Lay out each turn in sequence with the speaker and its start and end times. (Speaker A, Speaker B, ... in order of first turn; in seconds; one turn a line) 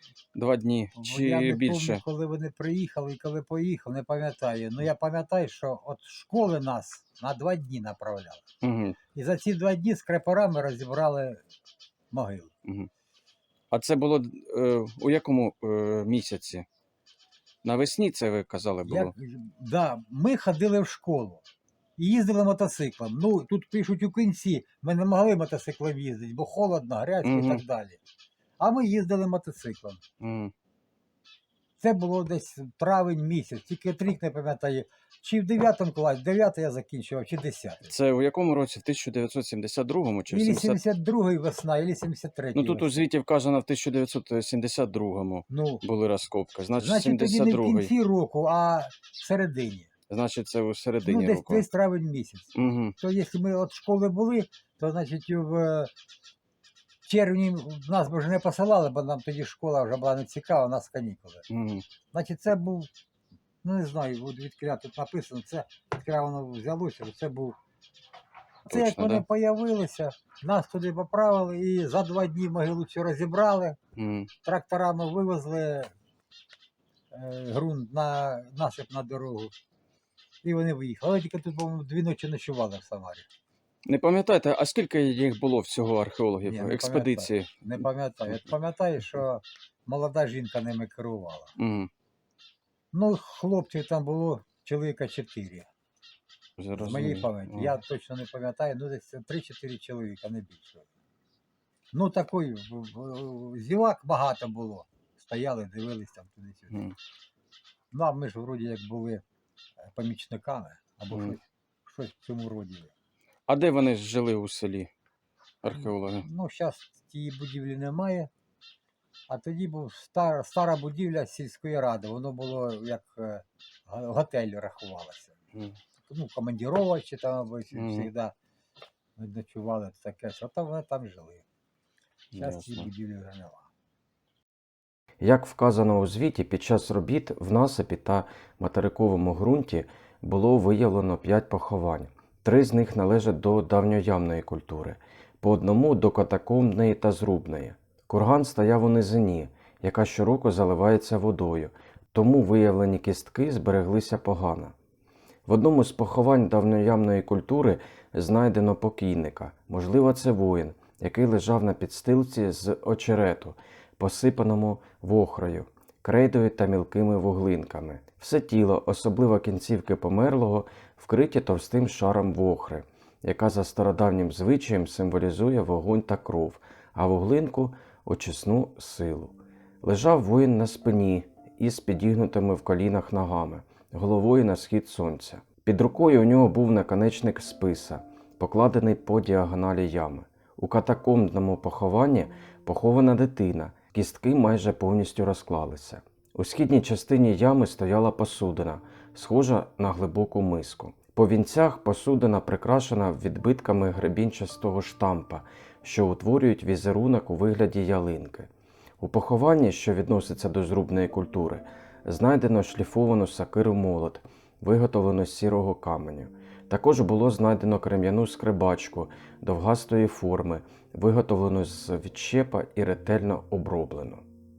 Speaker A: 0.3-2.0
Speaker B: 0.9-8.4
Speaker A: 8.6-9.0
Speaker B: 9.1-11.4
Speaker B: 12.1-12.5
Speaker A: 13.7-16.6
Speaker A: 17.6-19.1
Speaker B: 18.8-21.4
Speaker B: 22.0-28.0
Speaker A: 27.2-27.6
Speaker B: 28.6-30.0
Speaker A: 30.2-30.5
Speaker B: 31.8-37.9
Speaker A: 37.9-40.8
Speaker B: 40.3-43.1
Speaker A: 42.5-47.9
Speaker B: 45.5-45.8
Speaker B: 46.8-49.9
Speaker A: 50.1-51.6
Speaker B: 51.0-55.9
Speaker A: 52.5-52.9
Speaker B: 57.0-61.4
Speaker A: 61.5-61.8
Speaker B: 62.1-62.9
Speaker B: 63.6-67.5
Speaker A: 68.7-69.2
Speaker B: 68.7-73.8
Speaker A: 74.0-74.3
Speaker B: 74.4-75.9
Speaker B: 77.1-79.5
Speaker B: 80.4-83.3
Speaker A: 83.8-88.4
Speaker B: 86.5-91.5
Speaker A: 91.6-91.9
Speaker B: 92.9-95.7
Speaker A: 96.6-97.8
Speaker B: 96.7-100.9
Speaker B: 101.9-106.8
Speaker B: 107.9-109.2
Speaker B: 109.8-112.9
Speaker A: 111.1-111.3
Speaker A: 113.5-114.9
Speaker A: 115.6-116.2
Speaker B: 115.7-118.3
Speaker B: 119.3-125.3
Speaker B: 126.0-128.3
Speaker A: 127.7-128.1
Speaker B: 129.2-131.4
Speaker A: 132.3-132.9
Speaker B: 132.3-133.7
Speaker A: 135.2-154.7
Speaker A: 155.4-224.2